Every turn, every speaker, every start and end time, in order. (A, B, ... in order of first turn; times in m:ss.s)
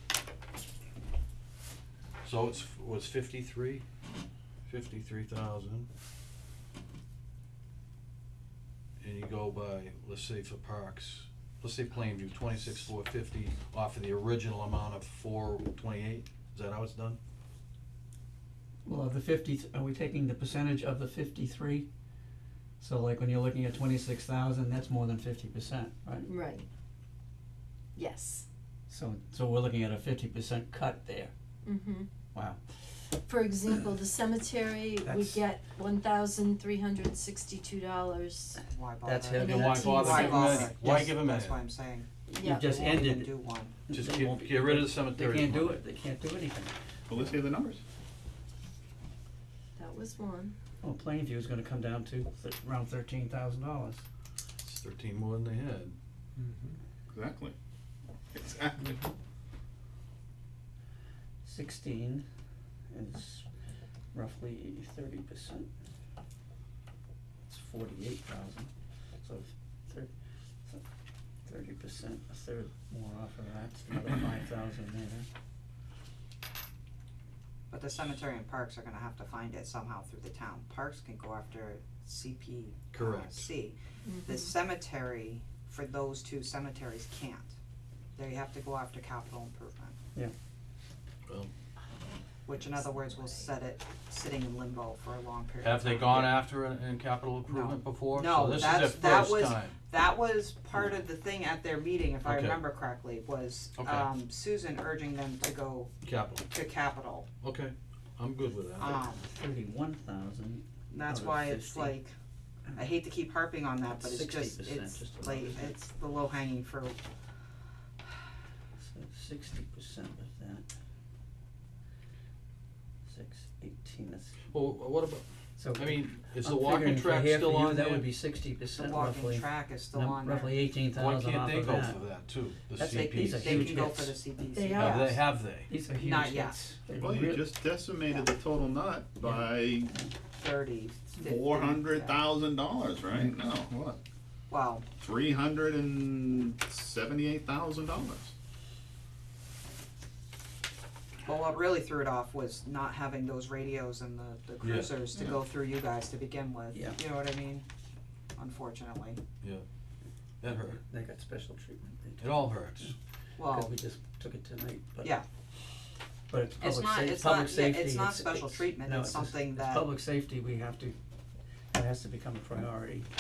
0:02.2-0:03.8 A
0:04.7-0:05.9 A
0:09.0-0:17.2 A
0:18.8-0:21.9 B
0:22.8-0:26.3 B
0:26.2-0:26.6 C
0:28.0-0:28.4 C
0:28.9-0:31.3 B
0:31.6-0:32.1 C
0:32.3-0:32.6 B
0:33.2-0:38.6 C
0:35.0-0:35.4 B
0:38.7-0:43.7 D
0:39.0-0:41.1 B
0:39.4-0:40.7 C
0:39.4-0:41.6 A
0:42.3-0:42.8 C
0:42.3-0:43.3 B
0:43.9-0:47.3 B
0:43.9-0:45.8 A
0:47.1-0:47.8 E
0:49.8-0:50.5 C
0:50.8-0:54.0 B
0:54.6-0:56.0 A
0:56.4-0:57.5 E
0:58.3-0:59.0 E
1:01.4-1:02.2 B
1:02.9-1:03.4 B
1:04.1-1:05.7 B
1:07.5-1:08.7 B
1:09.2-1:10.1 B
1:11.4-1:15.2 B
1:17.7-1:27.5 D
1:22.9-1:23.5 A
1:24.0-1:24.5 C
1:28.2-1:29.9 D
1:32.4-1:36.4 D
1:35.6-1:39.8 A
1:37.5-1:45.9 D
1:42.2-1:42.6 A
1:43.8-1:44.1 A
1:46.0-1:46.4 A
1:46.5-1:47.3 D
1:47.4-1:49.1 A
1:48.8-1:49.3 D
1:49.3-1:52.0 B
1:50.9-1:52.1 D
1:52.7-1:56.9 D
1:53.8-1:55.7 B
1:58.8-2:00.6 B
2:03.1-2:04.3 B
2:04.5-2:08.1 A
2:05.6-2:12.0 B
2:08.7-2:10.5 D
2:10.9-2:13.9 A
2:12.7-2:14.2 B
2:12.9-2:15.2 D
2:14.5-2:15.0 C
2:14.8-2:15.7 A
2:15.7-2:17.6 B
2:16.0-2:16.6 D
2:17.0-2:20.0 E
2:19.2-2:20.1 B
2:20.3-2:22.2 D
2:21.2-2:24.0 E
2:24.5-2:24.8 D
2:25.0-2:28.3 E
2:31.2-2:37.6 D
2:34.6-2:35.0 A
2:36.7-2:37.0 B
2:38.3-2:39.2 D
2:40.4-2:40.8 A
2:40.7-2:45.1 B
2:42.2-2:42.9 A
2:43.4-2:43.7 D
2:46.3-2:50.9 B
2:46.6-2:49.9 D
2:51.7-2:53.1 B